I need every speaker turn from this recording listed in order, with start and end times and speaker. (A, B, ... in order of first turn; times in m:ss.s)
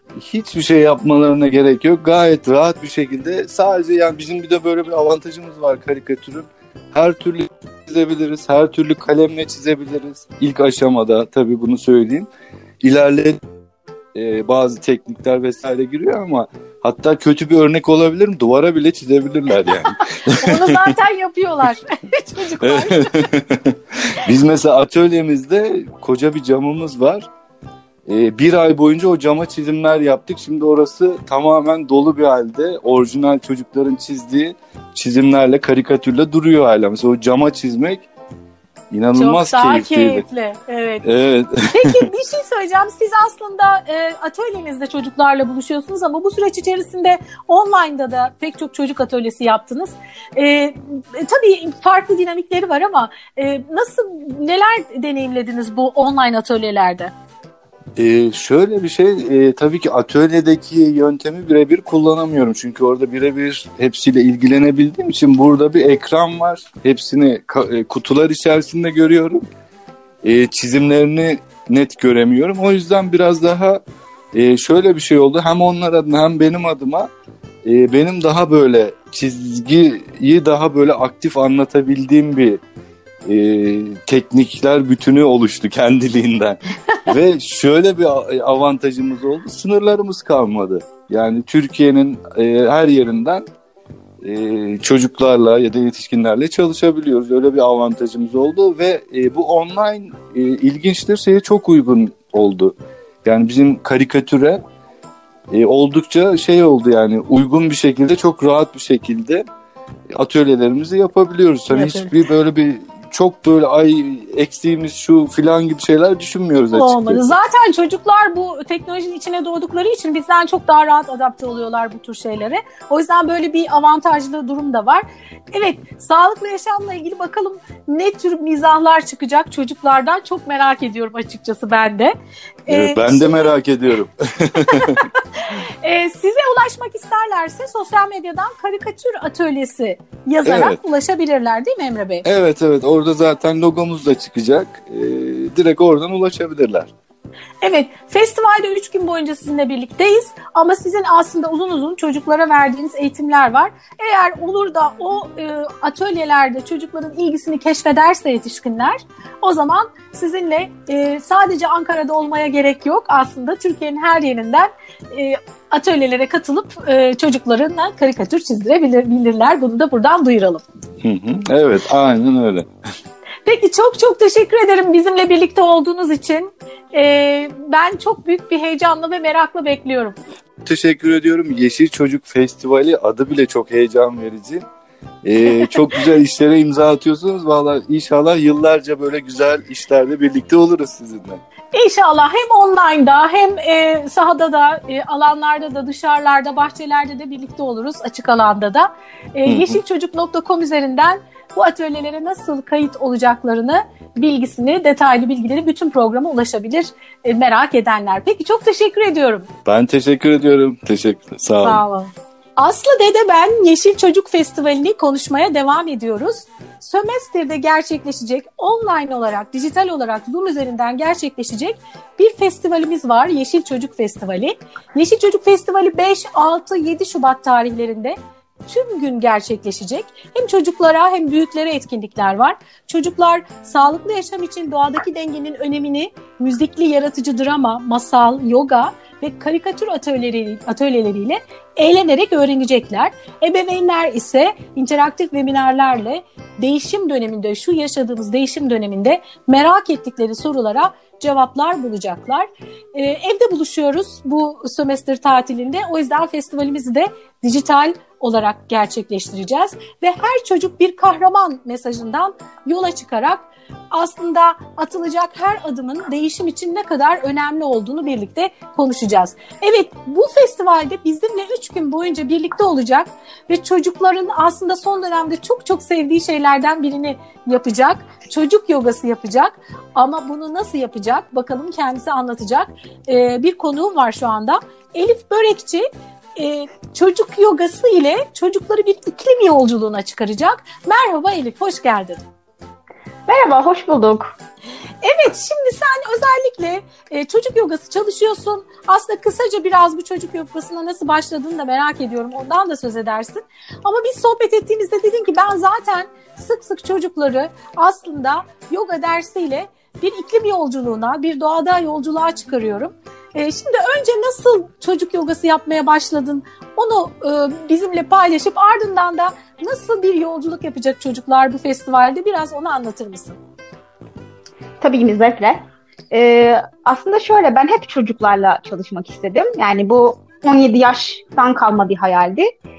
0:00.2-0:12.3 A
0:12.8-0:13.4 A
0:14.1-0:20.9 A
0:20.4-0:23.3 B
0:22.6-0:27.3 A
0:28.1-0:38.1 A
0:38.9-0:40.2 A
0:39.1-0:41.0 B
0:41.0-0:41.9 A
0:41.7-0:57.1 B
0:58.0-1:09.4 A
1:10.2-1:13.8 A
1:14.3-1:17.1 A
1:17.6-1:22.6 A
1:23.2-1:33.4 A
1:34.2-1:44.6 A
1:45.5-1:49.4 A
1:50.1-1:57.4 A
1:51.7-1:52.1 B
1:56.7-2:12.1 B
2:12.6-2:13.5 B
2:12.7-2:15.0 A
2:14.7-2:22.2 B
2:20.4-2:20.8 A
2:22.2-2:26.9 A
2:27.6-2:50.6 B
2:51.0-2:52.7 A
2:53.4-3:00.2 B
3:00.6-3:04.6 A
3:05.2-3:11.4 A
3:11.7-3:29.5 B
3:19.4-3:19.8 A
3:29.6-3:31.8 A
3:31.6-3:48.2 B
3:48.7-4:52.2 B
4:53.3-4:54.3 C
4:55.0-5:23.4 B
5:24.8-5:32.5 C